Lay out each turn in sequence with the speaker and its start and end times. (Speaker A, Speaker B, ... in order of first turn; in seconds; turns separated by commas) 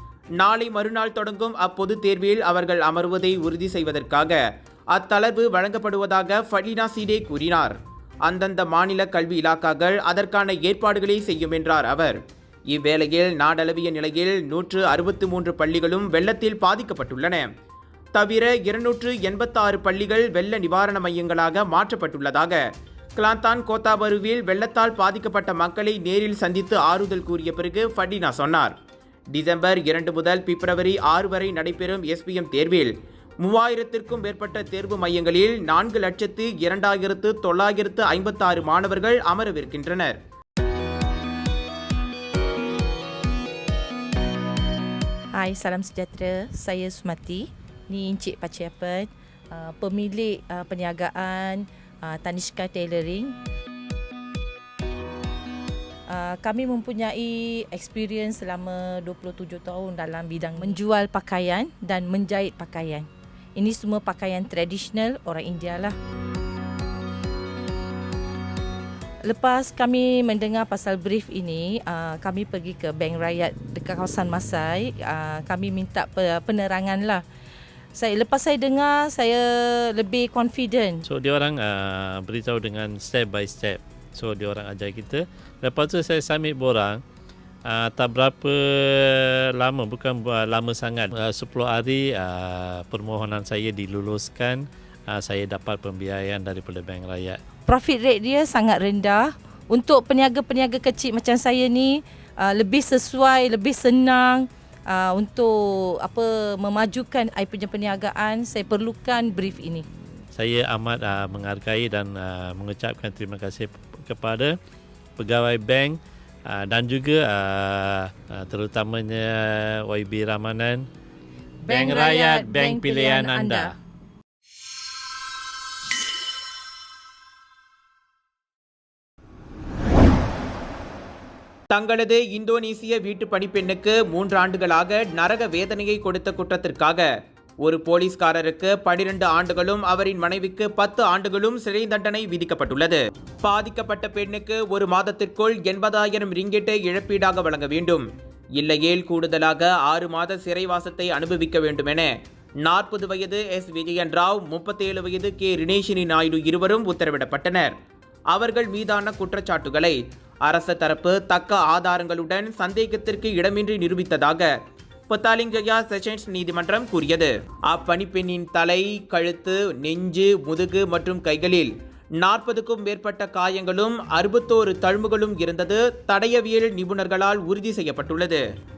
Speaker A: 0.4-4.4, Speaker A: 4.9-12.2, Speaker A: 12.7-17.5, Speaker A: 18.1-22.6, Speaker A: 23.2-28.8, Speaker A: 29.3-40.2, Speaker B: 45.4-53.3, Speaker B: 56.1-66.0, Speaker B: 69.3-77.2, Speaker B: 78.0-81.0, Speaker C: 81.1-87.0, Speaker C: 87.7-97.4, Speaker B: 97.7-109.9, Speaker C: 110.3-114.5, Speaker C: 115.2-116.0, Speaker C: 116.5-120.9, Speaker B: 121.7-123.7, Speaker C: 121.7-123.7, Speaker A: 131.7-137.1, Speaker A: 137.6-148.1, Speaker A: 148.6-157.8, Speaker A: 158.3-164.5, Speaker A: 165.1-178.4